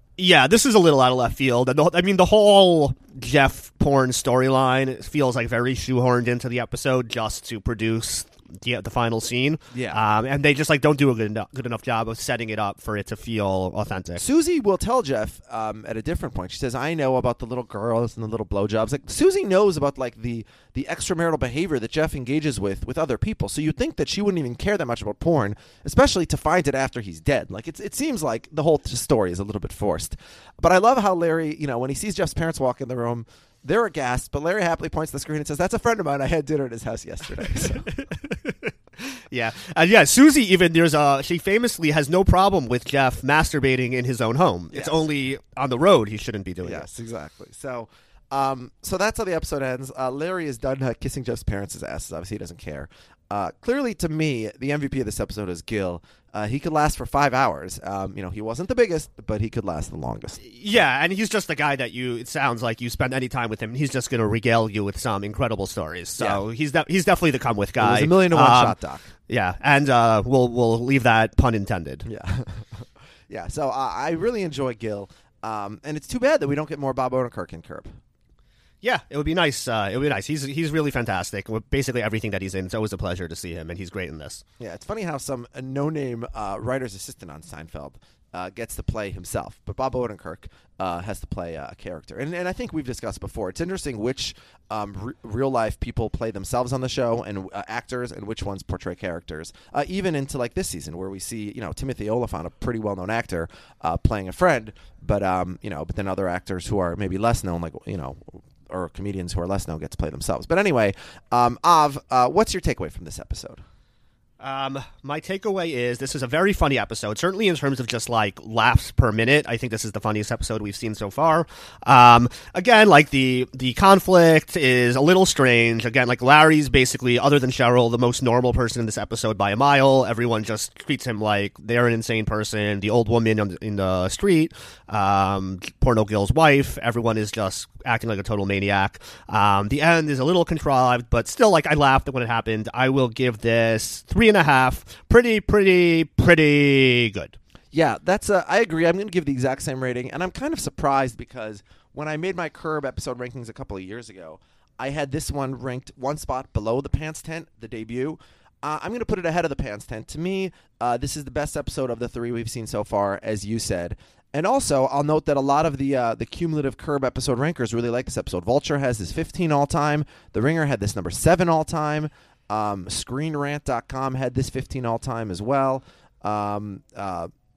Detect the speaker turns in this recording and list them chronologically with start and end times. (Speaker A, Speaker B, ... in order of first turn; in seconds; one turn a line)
Speaker A: 0.2-14.2
Speaker B: 9.7-10.0
Speaker B: 14.2-37.9
Speaker A: 37.9-46.9
Speaker B: 44.7-45.0
Speaker B: 46.6-60.4
Speaker A: 60.4-68.8
Speaker B: 67.8-69.1
Speaker A: 69.3-72.1
Speaker B: 72.1-77.9
Speaker A: 78.8-84.4
Speaker B: 84.6-113.6
Speaker A: 114.4-147.3
Speaker B: 147.7-177.3